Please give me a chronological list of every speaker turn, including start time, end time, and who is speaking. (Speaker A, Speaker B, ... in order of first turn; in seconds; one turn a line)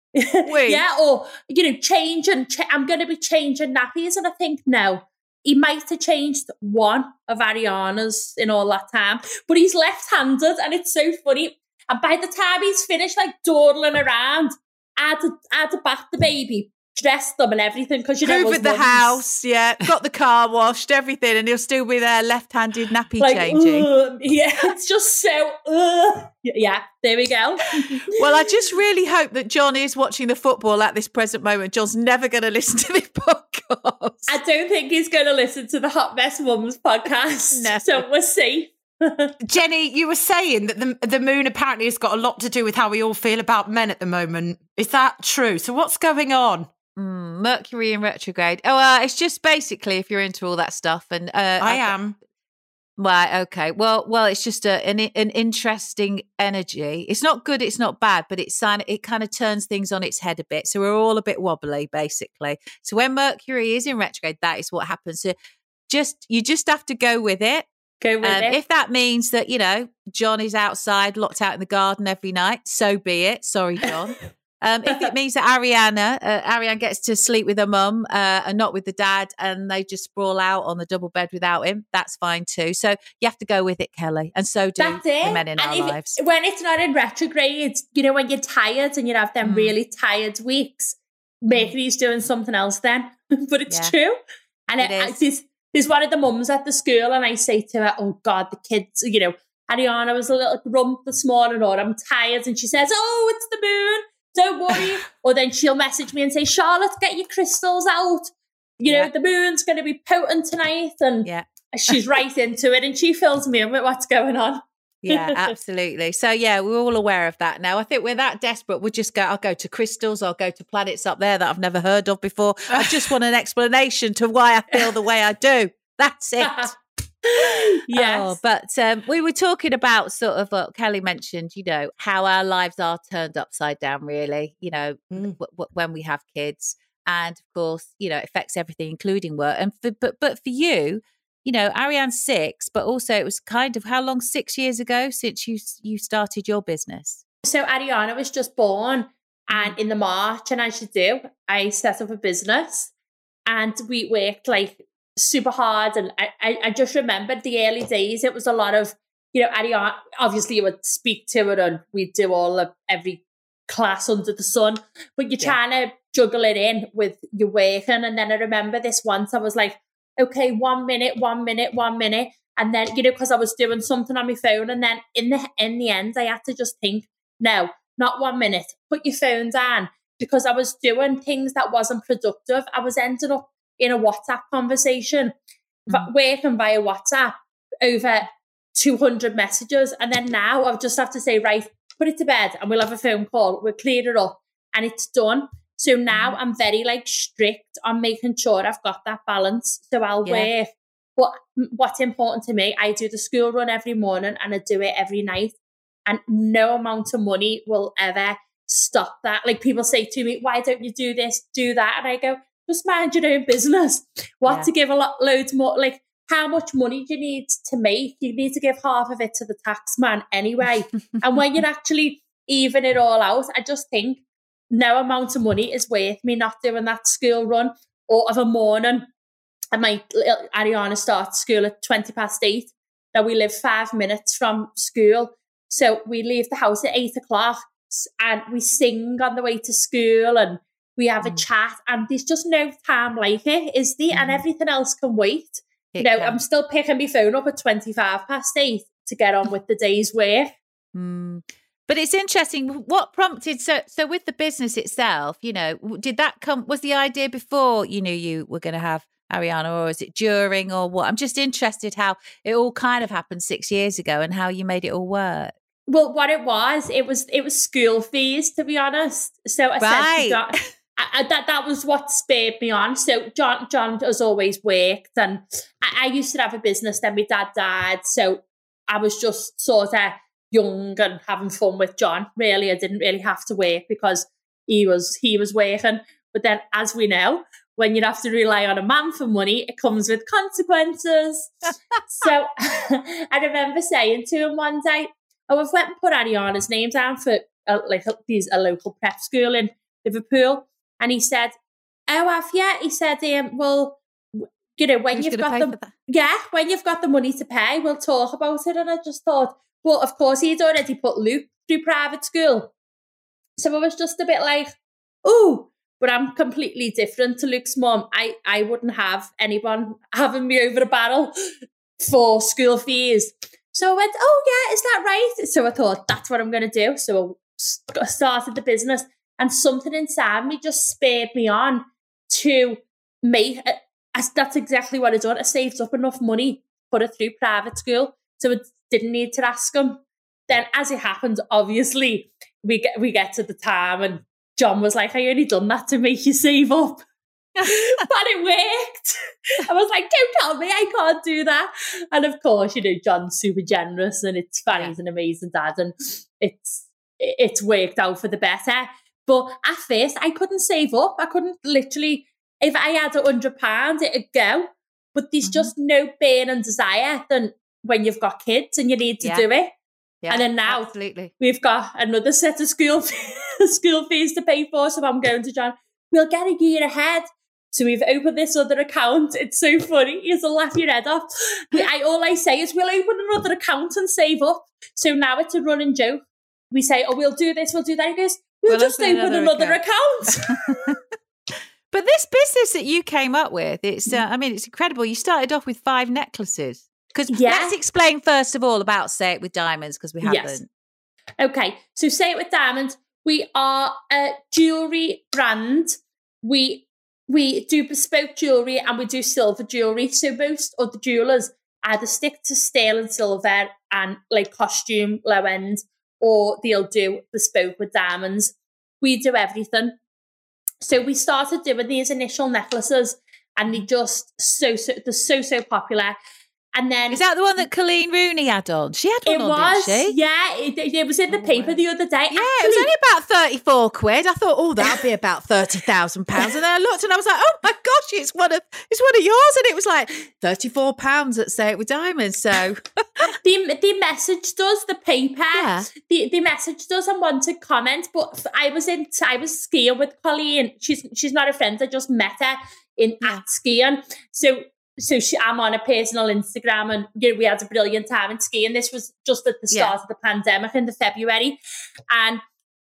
Speaker A: 0.1-19.2
Speaker B: 0.5-0.8
Speaker B: 18.2-23.9
Speaker A: 23.2-28.1
Speaker B: 28.1-34.4
Speaker A: 34.3-39.3
Speaker B: 37.5-38.0
Speaker C: 39.5-46.7
Speaker B: 47.0-52.0
Speaker C: 51.6-52.1
Speaker B: 53.0-65.3
Speaker B: 65.9-67.7
Speaker A: 68.0-68.6
Speaker B: 68.2-86.1
Speaker A: 84.8-115.5
Speaker B: 89.4-89.8
Speaker B: 93.7-94.0
Speaker B: 94.8-95.2
Speaker B: 115.0-126.8
Speaker A: 126.4-126.7
Speaker A: 127.2-128.4
Speaker B: 127.9-147.2
Speaker A: 147.4-152.9
Speaker A: 153.5-185.3
Speaker A: 185.9-205.6
Speaker B: 196.1-196.4
Speaker B: 200.2-200.5
Speaker A: 206.1-229.1
Speaker A: 229.7-250.5
Speaker B: 244.1-244.4
Speaker B: 245.9-246.4
Speaker B: 250.9-265.6
Speaker A: 265.9-301.5
Speaker B: 269.8-270.4
Speaker A: 302.1-312.7
Speaker B: 305.1-305.9
Speaker A: 313.6-321.3
Speaker A: 322.0-347.0
Speaker A: 347.6-369.7
Speaker B: 365.4-365.7
Speaker B: 370.2-371.3
Speaker A: 370.3-390.8
Speaker B: 388.7-389.8
Speaker B: 390.4-391.0
Speaker B: 391.9-400.7
Speaker A: 397.3-397.8
Speaker A: 400.2-400.6
Speaker A: 401.4-420.0
Speaker A: 420.8-426.2
Speaker A: 426.7-427.2
Speaker B: 427.1-430.2
Speaker A: 429.3-432.9
Speaker B: 431.3-431.8
Speaker B: 432.3-443.3
Speaker A: 443.4-461.6
Speaker B: 445.5-445.9
Speaker A: 462.1-462.4